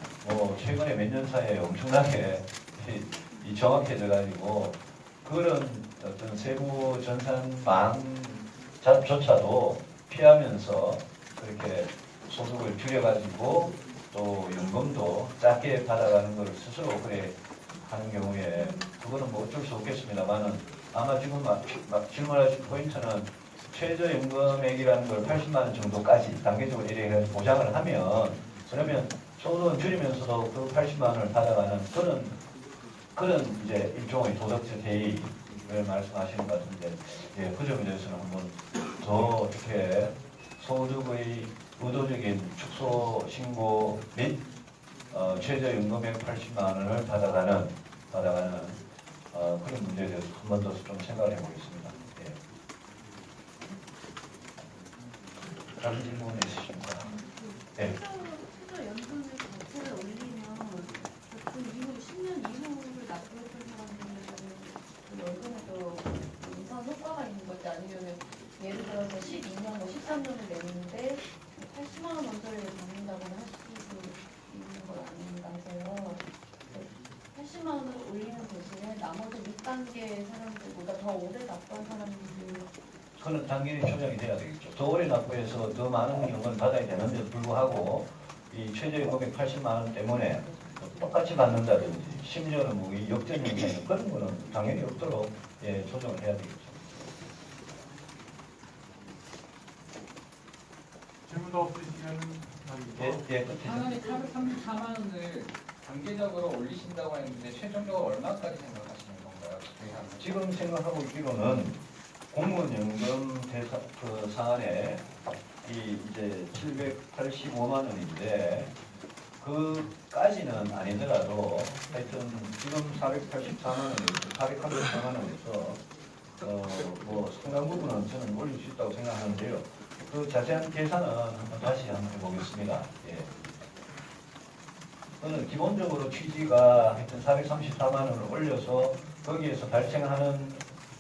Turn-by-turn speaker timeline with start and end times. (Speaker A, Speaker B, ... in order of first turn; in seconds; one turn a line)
Speaker A: 0.2-32.4
Speaker A: 33.1-44.5
Speaker A: 45.1-52.4
Speaker A: 55.8-57.1
Speaker B: 57.1-82.7
Speaker A: 83.2-97.0
Speaker C: 101.3-103.5
Speaker A: 103.0-104.0
Speaker D: 103.6-110.3
Speaker A: 110.2-111.8
Speaker A: 112.3-115.0
Speaker A: 115.6-118.7
Speaker A: 119.4-125.8
Speaker A: 126.4-133.3
Speaker A: 135.2-140.6